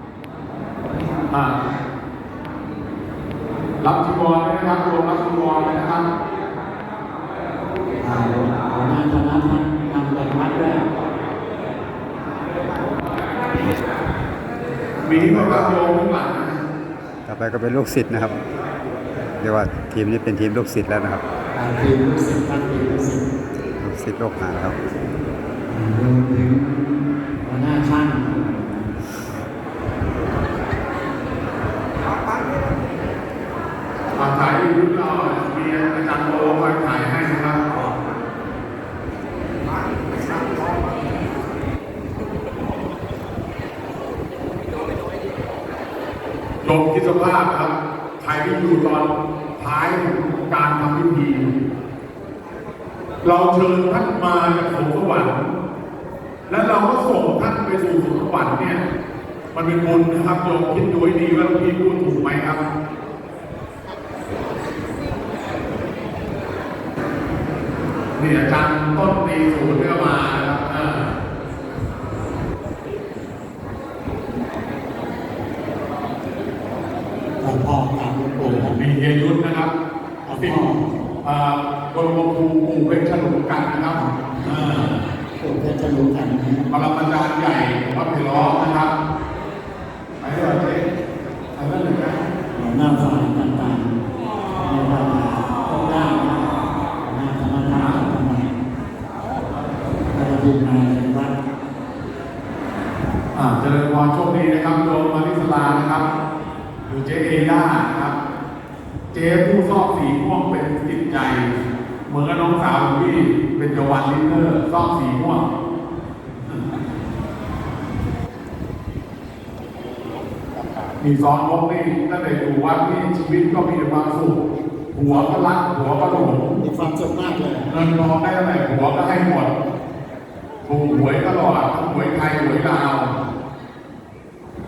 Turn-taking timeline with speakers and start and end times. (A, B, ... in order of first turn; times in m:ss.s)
0:01.3-0:01.6 A
0:03.8-0:06.1 A
0:08.0-0:10.8 B
0:13.5-0:13.8 C
0:15.0-0:16.6 A
0:15.1-0:15.8 C
0:17.3-0:18.4 C
0:19.4-0:21.2 C
0:21.6-0:23.3 B
0:23.8-0:24.8 C
0:25.7-0:29.0 B
0:34.2-0:37.6 A
0:46.6-0:51.5 A
0:53.2-0:55.5 A
0:56.5-0:58.8 A
0:59.5-1:02.6 A
1:08.2-1:11.1 A
1:17.4-1:18.8 B
1:18.5-1:19.7 A
1:20.2-1:21.0 B
1:21.2-1:25.0 A
1:23.9-1:26.7 B
1:26.7-1:28.9 A
1:30.2-1:30.9 A
1:31.6-1:32.2 A
1:32.5-1:34.0 B
1:34.6-1:38.6 B
1:40.1-1:41.4 B
1:43.3-1:46.1 A
1:46.9-1:48.2 A
1:49.1-1:51.6 A
1:52.1-1:55.5 A
2:01.0-2:04.4 A
2:04.9-2:06.6 A
2:05.1-2:05.4 B
2:06.1-2:07.7 B
2:07.7-2:09.5 A
2:10.6-2:13.2 A